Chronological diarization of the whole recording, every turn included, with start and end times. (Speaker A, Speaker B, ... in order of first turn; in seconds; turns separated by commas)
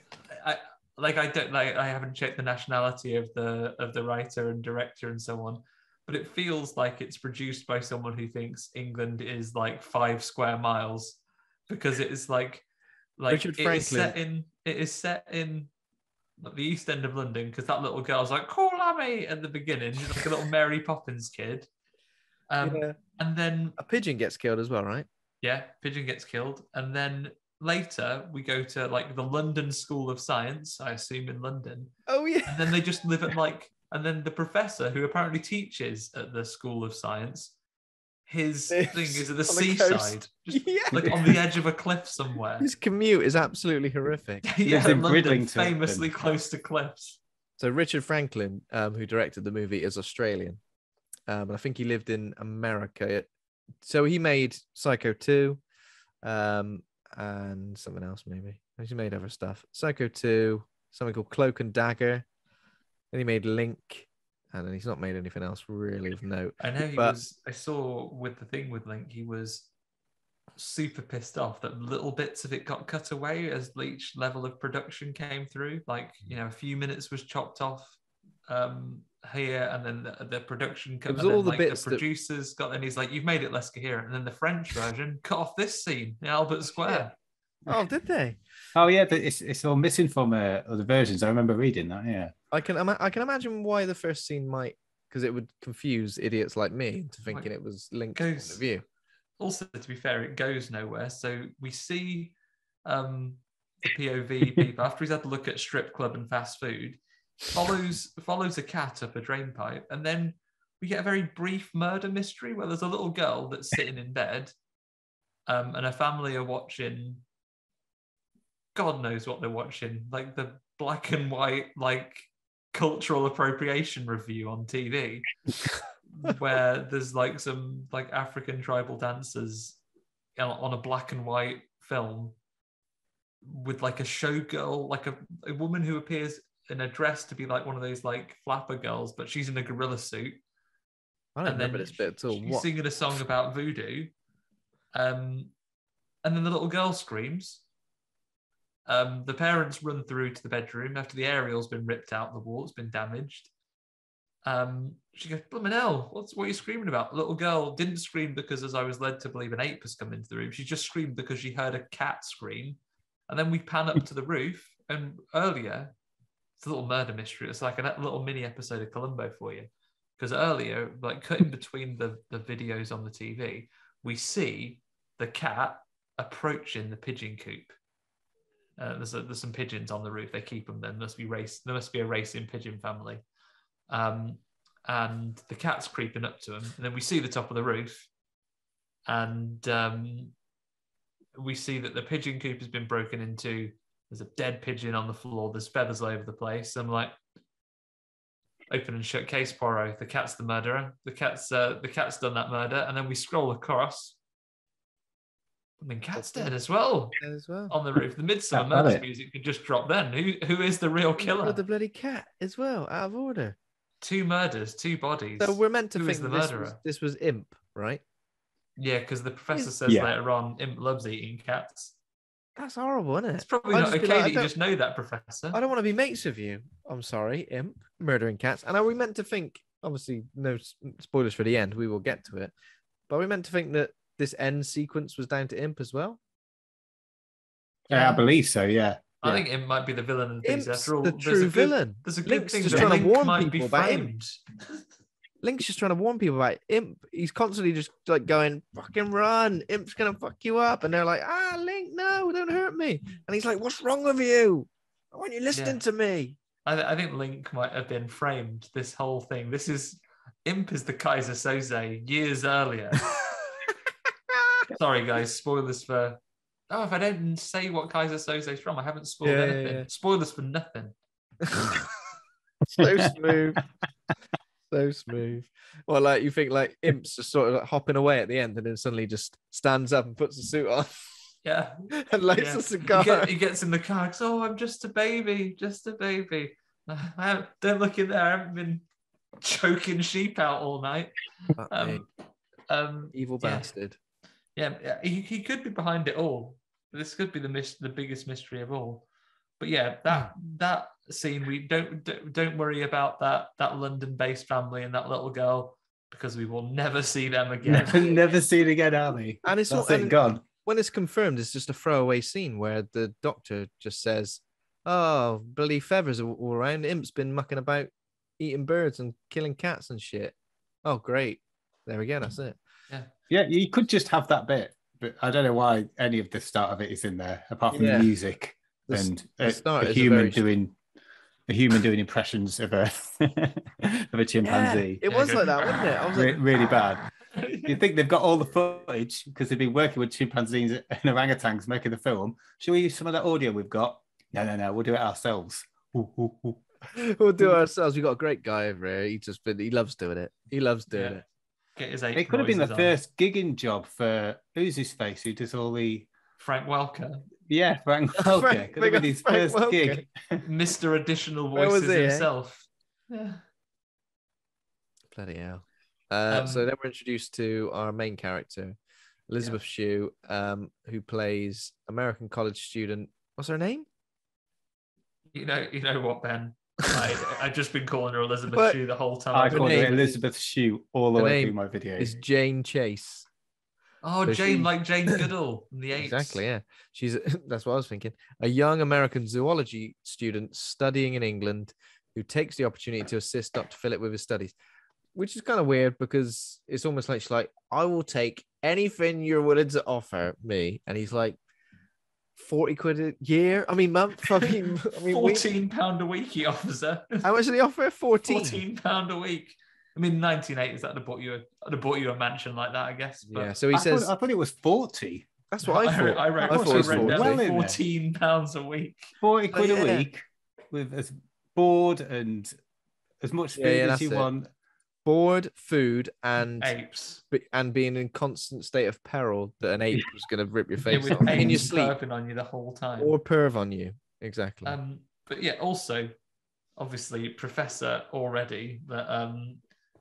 Speaker A: 0.3-12.6, Speaker A: 13.2-15.7, Speaker B: 13.3-14.1, Speaker A: 16.4-21.7, Speaker A: 22.5-23.8, Speaker B: 22.6-23.0, Speaker B: 23.8-25.1, Speaker A: 25.4-31.9, Speaker B: 32.1-32.8, Speaker A: 32.5-37.5, Speaker A: 38.3-42.7, Speaker B: 38.7-41.3, Speaker B: 42.6-44.4, Speaker A: 44.4-47.2, Speaker C: 44.6-46.1, Speaker B: 47.6-50.6, Speaker B: 51.3-53.3, Speaker B: 53.8-55.6, Speaker B: 56.2-62.2, Speaker B: 63.1-67.2, Speaker A: 66.6-69.7, Speaker A: 70.6-78.0, Speaker A: 78.5-87.1, Speaker B: 81.1-82.0, Speaker B: 87.7-88.4, Speaker C: 88.8-92.3, Speaker B: 92.5-98.8, Speaker A: 98.1-98.6, Speaker A: 99.4-102.3, Speaker A: 102.8-114.5, Speaker A: 115.5-117.2, Speaker A: 118.7-125.3, Speaker A: 126.1-129.8, Speaker A: 130.4-132.3, Speaker A: 133.4-140.4, Speaker B: 141.3-142.7, Speaker A: 141.4-144.1, Speaker A: 144.9-145.5, Speaker A: 146.2-147.6, Speaker A: 148.8-153.5, Speaker A: 154.4-162.8, Speaker A: 163.3-165.9, Speaker A: 166.6-177.8, Speaker A: 178.8-183.2, Speaker A: 183.9-188.1, Speaker A: 189.1-190.3, Speaker A: 191.3-197.1, Speaker A: 198.7-204.2, Speaker A: 205.8-207.2, Speaker B: 206.2-206.6, Speaker B: 207.2-207.7, Speaker A: 207.7-211.6, Speaker C: 208.5-209.0, Speaker B: 211.2-213.6, Speaker A: 214.0-216.8, Speaker B: 215.4-218.0, Speaker A: 218.8-221.9, Speaker B: 222.6-224.5, Speaker A: 223.4-225.6, Speaker B: 225.5-232.5, Speaker B: 233.1-236.2, Speaker C: 237.9-239.0, Speaker A: 237.9-238.2, Speaker A: 239.2-244.4, Speaker B: 240.4-244.1, Speaker B: 245.4-256.4, Speaker A: 255.5-255.8, Speaker A: 256.6-263.1, Speaker B: 263.1-263.7, Speaker B: 264.3-264.6, Speaker A: 264.7-270.9, Speaker B: 269.2-269.9, Speaker B: 271.4-271.9, Speaker B: 272.7-273.6, Speaker C: 272.8-273.1, Speaker B: 274.7-281.0, Speaker A: 281.4-288.8, Speaker B: 281.9-283.3, Speaker A: 289.4-291.1, Speaker B: 291.6-292.0, Speaker A: 291.7-292.1, Speaker A: 292.7-293.7, Speaker B: 293.1-294.0, Speaker A: 294.6-299.1, Speaker A: 299.6-308.4, Speaker C: 307.6-310.4, Speaker B: 309.4-322.6, Speaker C: 323.3-330.8, Speaker B: 327.7-328.1, Speaker B: 328.9-330.4, Speaker C: 331.5-335.0, Speaker B: 334.4-336.4, Speaker A: 335.0-336.2, Speaker C: 336.1-337.1, Speaker A: 337.2-337.8, Speaker C: 337.6-346.6, Speaker B: 346.9-351.2, Speaker A: 350.9-351.2, Speaker A: 351.8-352.9, Speaker C: 352.1-356.1, Speaker A: 356.4-357.3, Speaker C: 357.5-360.4, Speaker B: 358.2-360.0, Speaker A: 360.4-363.4, Speaker B: 361.5-362.3, Speaker B: 365.1-368.8, Speaker A: 366.3-366.7, Speaker B: 369.3-373.9, Speaker A: 375.3-380.0, Speaker B: 378.5-378.8, Speaker C: 379.3-382.1, Speaker B: 379.5-380.2, Speaker B: 381.1-383.2, Speaker A: 384.0-386.4, Speaker B: 384.2-385.3, Speaker B: 385.9-394.5, Speaker B: 395.1-401.4, Speaker B: 402.4-405.5, Speaker A: 404.9-407.3, Speaker B: 407.2-408.6, Speaker A: 408.3-413.5, Speaker B: 413.3-414.1, Speaker C: 413.7-415.3, Speaker B: 415.5-417.4, Speaker A: 415.6-419.1, Speaker C: 416.5-417.8, Speaker C: 419.2-420.2, Speaker B: 419.5-420.1, Speaker C: 420.7-422.6, Speaker C: 423.2-424.5, Speaker B: 423.6-424.3, Speaker B: 425.0-426.7, Speaker A: 426.6-427.2, Speaker B: 427.3-431.9, Speaker A: 430.9-433.2, Speaker B: 433.0-434.8, Speaker A: 434.6-436.1, Speaker A: 436.8-439.6